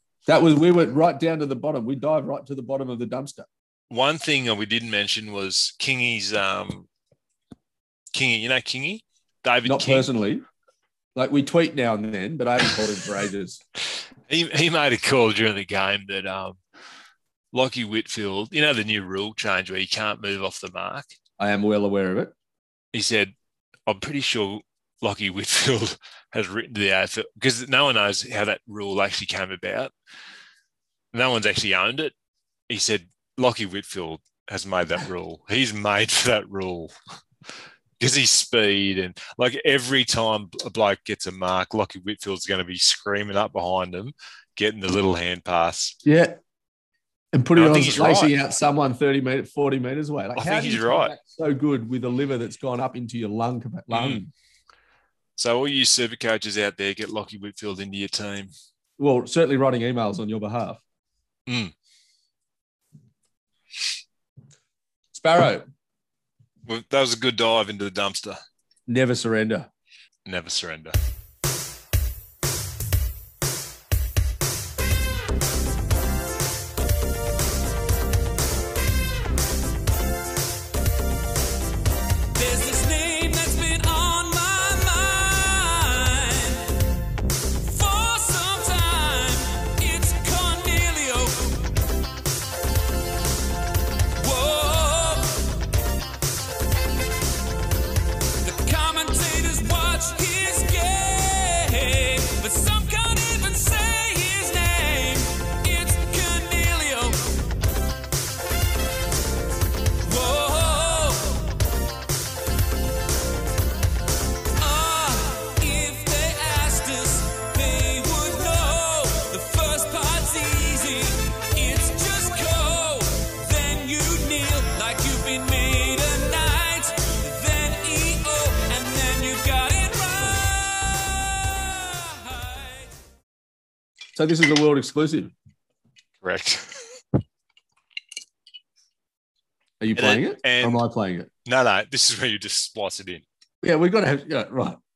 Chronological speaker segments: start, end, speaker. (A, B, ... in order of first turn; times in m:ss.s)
0:00.3-0:03.5 A
0:03.9-0:06.9 B
0:08.1-0:10.1 B
0:09.6-0:10.4 A
0:11.1-0:13.6 A
0:14.3-0:16.6 B
0:17.5-0:21.1 B
0:21.4-0:22.3 A
0:22.9-0:23.3 B
0:23.9-0:29.9 B
0:31.1-0:32.1 B
0:32.7-0:36.9 B
0:38.0-0:46.0 B
0:46.0-0:46.4 A
0:47.3-0:54.3 A
0:47.6-0:48.4 B
0:50.4-0:51.1 B
0:53.9-0:54.2 B
0:55.4-0:58.5 B
0:59.0-1:00.8 A
1:01.5-1:01.7 B
1:05.1-1:05.6 A
1:06.7-1:08.4 B
1:08.9-1:09.7 A
1:10.3-1:11.0 B
1:22.3-1:26.9 C
1:27.6-1:31.7 C
1:34.2-1:35.6 C
1:38.4-1:47.5 C
1:50.0-1:51.6 C
1:54.6-2:12.9 C
2:14.1-2:15.3 A
2:16.2-2:17.0 B
2:19.8-2:21.3 A
2:20.0-2:20.8 B
2:21.4-2:23.2 B
2:23.6-2:24.8 A